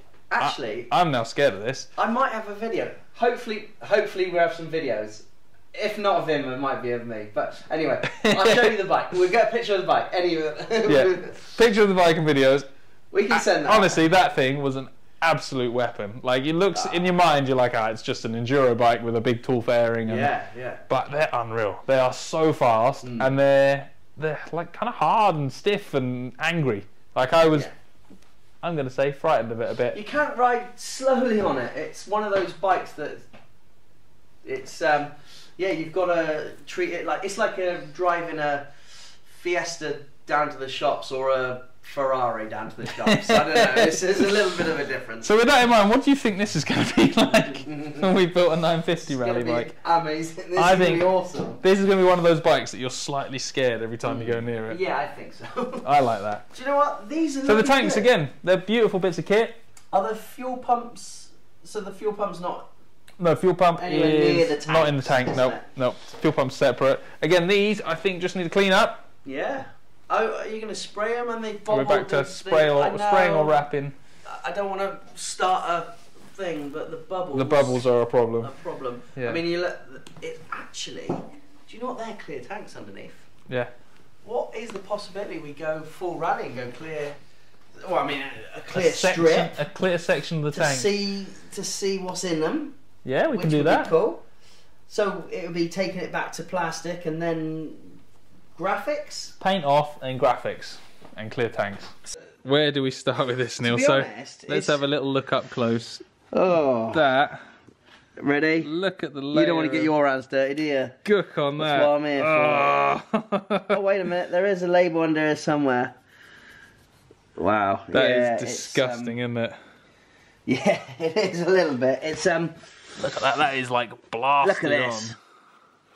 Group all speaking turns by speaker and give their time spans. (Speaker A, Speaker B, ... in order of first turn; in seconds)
Speaker A: 0.3-0.9, 1.9-11.5, 13.1-14.0, 16.7-17.1, 20.1-20.8, 23.0-23.3, 29.9-33.2, 34.4-38.7, 39.2-45.3, 47.6-48.1, 49.1-51.6, 54.0-55.9, 56.5-58.0, 59.9-62.7, 63.8-65.6, 69.2-73.6, 74.2-77.8, 78.4-83.3, 84.2-87.2, 87.8-89.6, 90.5-92.8, 93.3-94.2, 94.9-98.0, 98.6-99.3, 103.6-104.8, 106.3-107.0, 108.2-108.7, 109.3-111.0, 111.6-112.9, 113.7-115.9, 117.4-119.2, 120.5-122.5, 124.4-125.1
Speaker B: 0.4-1.9, 8.1-8.8, 10.9-12.7, 13.3-20.3, 20.9-27.7, 28.6-30.0, 42.9-44.3, 45.2-49.7, 50.5-51.0, 51.6-54.8, 55.8-56.4, 57.4-59.6, 63.2-69.0, 71.7-74.0, 77.3-78.5, 88.7-90.9, 93.0-93.9, 99.4-106.0, 106.9-107.4, 108.6-109.9, 111.0-113.8, 117.9-119.6, 123.0-125.1